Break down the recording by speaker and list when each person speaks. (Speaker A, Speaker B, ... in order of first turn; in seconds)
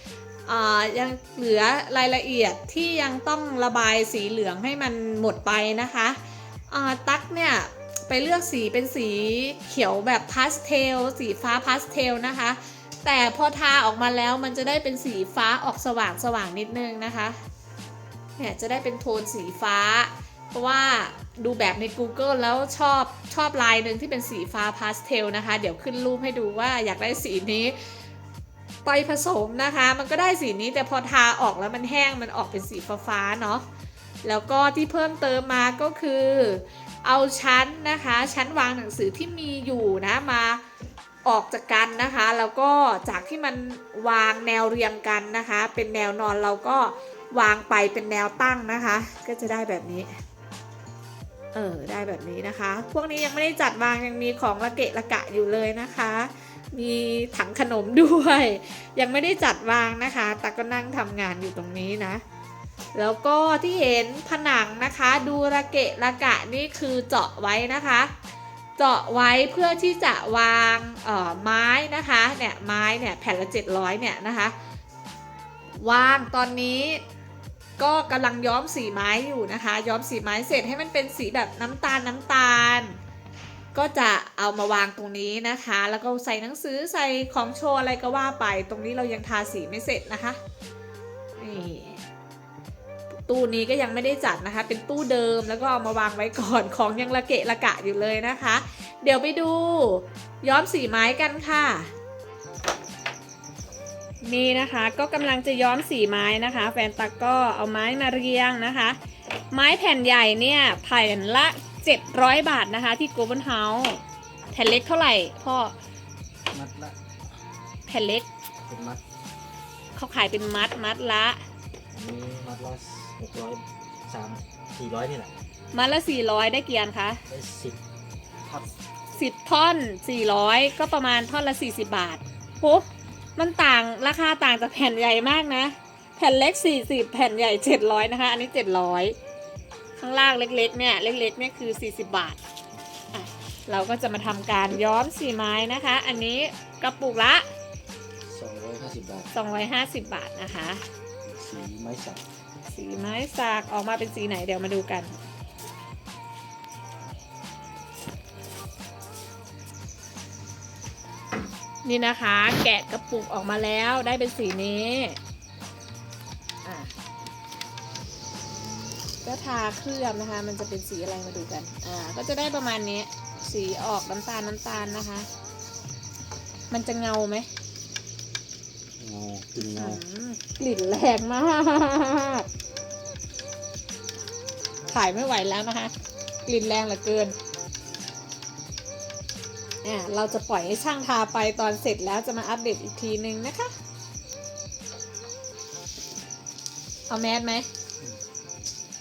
Speaker A: 0.5-6.2, 6.7-17.4, 18.4-27.8, 28.9-33.6, 34.2-40.6, 41.2-50.1, 51.5-62.2, 62.9-68.1, 68.8-74.5, 75.8-77.0, 77.8-83.0, 83.7-90.4, 91.4-92.0, 93.2-101.9, 104.2-109.0, 109.5-114.0, 114.5-115.8, 117.9-118.3, 120.0-121.4, 125.7-127.2, 129.1-139.2, 140.0-142.4, 143.1-147.5, 149.3-150.9, 152.7-155.1, 161.8-165.2, 166.6-166.9, 169.2-175.3, 176.7-177.5, 179.6-182.5, 184.9-185.9, 186.5-187.4, 189.8-193.7, 197.1-197.7
Speaker B: 116.5-117.0, 118.7-119.0, 121.9-125.3, 127.3-127.8, 148.3-149.3, 151.2-152.2, 179.0-180.0